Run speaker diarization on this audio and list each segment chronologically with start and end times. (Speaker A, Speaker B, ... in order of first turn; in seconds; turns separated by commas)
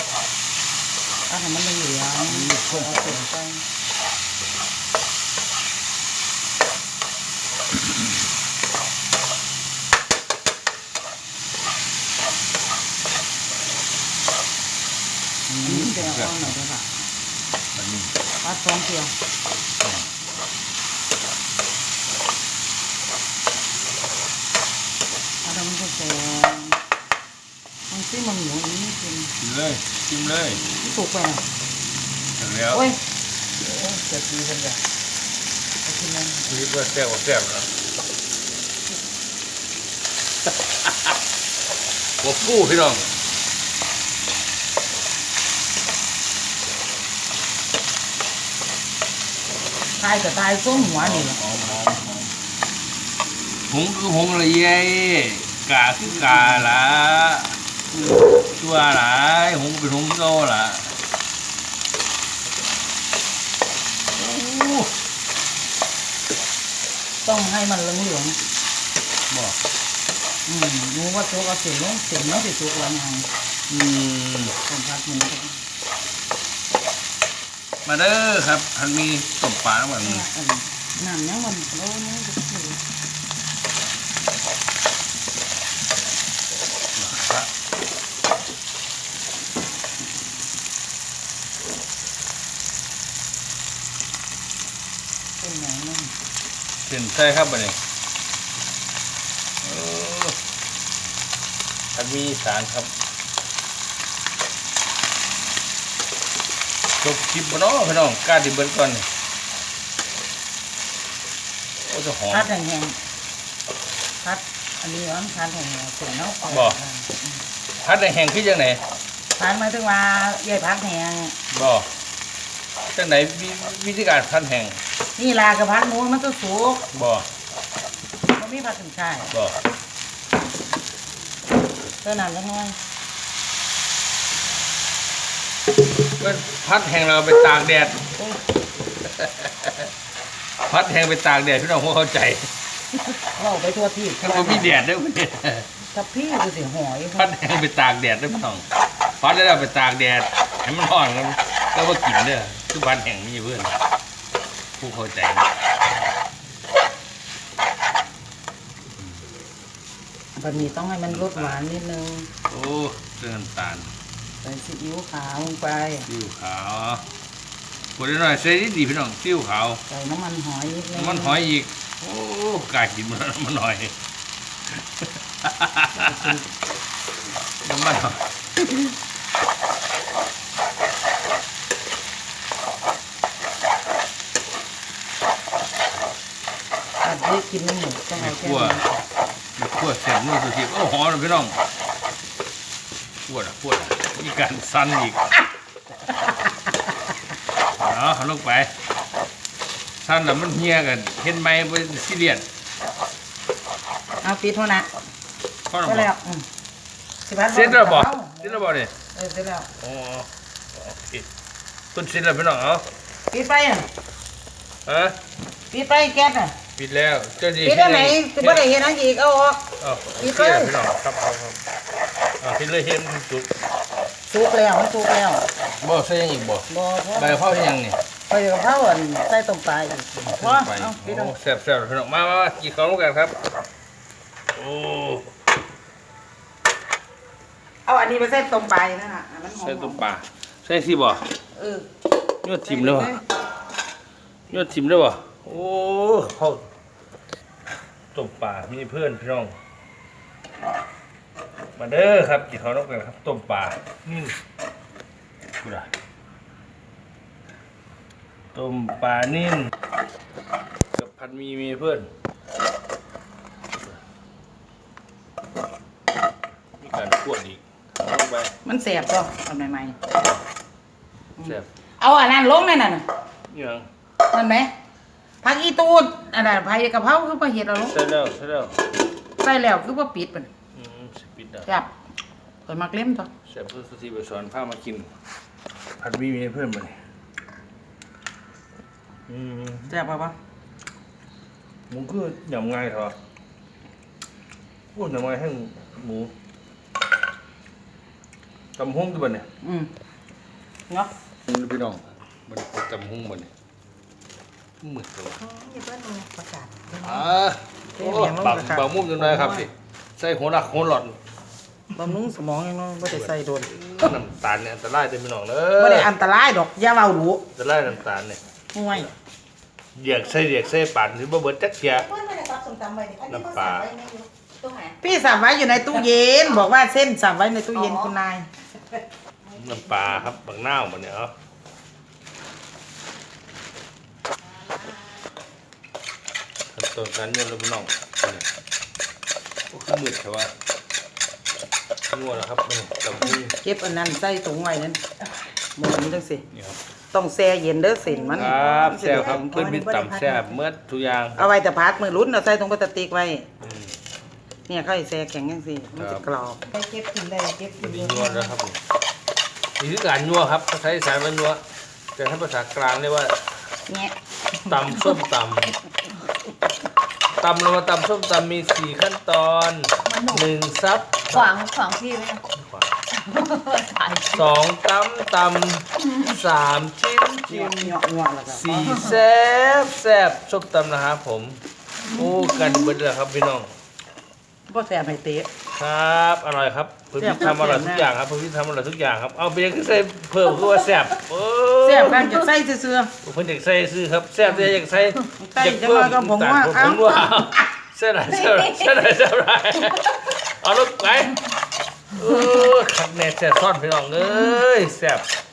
Speaker A: 1.3-3.6, Speaker B: 2.2-3.3, Speaker A: 15.5-17.1, Speaker B: 15.6-16.6, Speaker B: 17.8-18.1, Speaker A: 18.4-19.1, Speaker A: 25.4-26.8, Speaker A: 27.9-29.3, Speaker B: 29.4-30.6, Speaker A: 30.7-31.4, Speaker B: 32.4-32.8, Speaker A: 32.7-33.0, Speaker A: 33.6-34.9, Speaker A: 35.8-36.6, Speaker B: 36.5-37.7, Speaker B: 42.2-43.1, Speaker A: 50.0-51.4, Speaker B: 50.7-52.3, Speaker B: 53.7-57.5, Speaker A: 56.0-56.7, Speaker A: 57.9-58.2, Speaker B: 58.5-61.0, Speaker B: 64.1-64.9, Speaker A: 67.2-68.4, Speaker B: 69.3-69.6, Speaker A: 70.5-73.3, Speaker B: 73.7-74.5, Speaker A: 74.7-75.6, Speaker B: 77.8-80.2, Speaker A: 80.0-82.8, Speaker B: 86.9-87.5, Speaker A: 95.4-96.1, Speaker B: 96.8-97.8, Speaker B: 99.6-100.4, Speaker B: 101.9-102.9, Speaker B: 107.0-109.1, Speaker B: 111.9-112.5, Speaker A: 112.3-113.0, Speaker A: 114.2-117.4, Speaker B: 116.5-116.8, Speaker B: 117.8-118.8, Speaker A: 119.3-121.3, Speaker B: 121.5-121.9, Speaker B: 122.9-124.8, Speaker A: 125.2-126.9, Speaker B: 126.9-127.3, Speaker A: 128.3-129.3, Speaker B: 129.3-129.6, Speaker A: 132.0-132.8, Speaker B: 136.2-138.1, Speaker B: 139.0-139.9, Speaker B: 140.6-142.5, Speaker A: 143.4-144.8, Speaker B: 144.2-145.7, Speaker A: 145.9-147.3, Speaker B: 147.2-148.7, Speaker B: 149.2-153.8, Speaker B: 154.8-155.5, Speaker A: 160.3-162.3, Speaker B: 161.1-161.6, Speaker B: 162.5-163.9, Speaker A: 164.4-166.1, Speaker B: 166.1-167.0, Speaker B: 168.0-169.8, Speaker A: 169.9-171.4, Speaker B: 170.9-173.9, Speaker B: 174.8-176.3, Speaker A: 176.0-176.4, Speaker B: 177.6-178.2, Speaker A: 187.0-189.0, Speaker B: 188.1-188.8, Speaker B: 189.6-191.6, Speaker B: 193.3-195.2, Speaker B: 197.8-198.7, Speaker B: 200.0-202.4, Speaker A: 204.2-204.9, Speaker B: 205.7-206.1, Speaker A: 205.8-206.4, Speaker A: 207.2-209.7, Speaker B: 207.5-208.9, Speaker B: 209.8-211.3, Speaker B: 211.9-212.8, Speaker A: 213.3-213.9, Speaker B: 214.8-215.2, Speaker A: 215.7-216.6, Speaker B: 216.8-218.6, Speaker A: 217.6-220.7, Speaker B: 219.8-221.6, Speaker B: 222.4-223.5, Speaker A: 224.2-225.4, Speaker B: 225.7-228.0, Speaker A: 226.7-227.7, Speaker A: 228.3-231.3, Speaker B: 230.2-233.4, Speaker B: 234.5-235.3, Speaker A: 237.8-240.0, Speaker B: 239.5-241.2, Speaker A: 241.5-241.9, Speaker B: 242.4-243.2, Speaker A: 242.7-243.2, Speaker B: 244.5-246.6, Speaker B: 248.1-249.5, Speaker B: 251.8-254.4, Speaker B: 255.6-255.9, Speaker B: 258.5-259.7, Speaker B: 260.9-262.1, Speaker B: 266.8-268.5, Speaker A: 268.6-270.0, Speaker A: 271.4-273.0, Speaker B: 271.4-271.7, Speaker B: 273.5-273.9, Speaker A: 274.3-274.7, Speaker A: 275.4-277.9, Speaker B: 277.8-278.8, Speaker A: 279.4-280.5, Speaker B: 280.7-281.7, Speaker A: 281.6-281.9, Speaker A: 282.6-283.3, Speaker B: 283.4-285.1, Speaker B: 286.0-287.0, Speaker B: 289.3-289.9, Speaker A: 289.9-290.3, Speaker B: 291.9-293.1, Speaker B: 294.9-296.3, Speaker B: 298.8-299.5, Speaker A: 299.6-299.9, Speaker B: 301.5-303.5, Speaker B: 304.8-305.4, Speaker A: 305.4-307.4, Speaker B: 307.0-311.2, Speaker A: 307.9-309.7, Speaker A: 311.9-314.1, Speaker B: 313.0-316.1, Speaker A: 315.8-317.4, Speaker B: 317.5-319.1, Speaker A: 318.7-319.1, Speaker B: 319.9-322.1, Speaker C: 322.1-324.9, Speaker B: 323.3-323.9, Speaker A: 323.5-324.0, Speaker A: 324.9-328.5, Speaker B: 329.5-331.3, Speaker B: 336.7-338.4, Speaker B: 339.7-340.5, Speaker B: 342.1-343.6, Speaker A: 343.6-345.0, Speaker A: 345.8-346.4, Speaker B: 346.5-346.8, Speaker A: 347.1-350.4, Speaker B: 348.2-351.5, Speaker A: 351.4-353.5, Speaker B: 353.6-353.9, Speaker A: 354.7-358.5, Speaker B: 356.0-356.2, Speaker B: 357.8-358.8, Speaker B: 359.8-361.6, Speaker B: 362.1-363.5, Speaker A: 363.9-364.1, Speaker B: 364.6-365.8, Speaker A: 364.7-365.1, Speaker B: 367.4-371.5, Speaker C: 370.1-370.4, Speaker C: 371.3-372.4, Speaker B: 372.5-372.9, Speaker C: 373.1-374.4, Speaker B: 374.2-383.7, Speaker A: 377.4-379.2, Speaker A: 384.7-385.5, Speaker B: 385.7-392.4, Speaker A: 387.2-388.1, Speaker A: 391.8-393.1, Speaker B: 393.2-401.4, Speaker A: 395.4-397.5, Speaker B: 402.1-405.2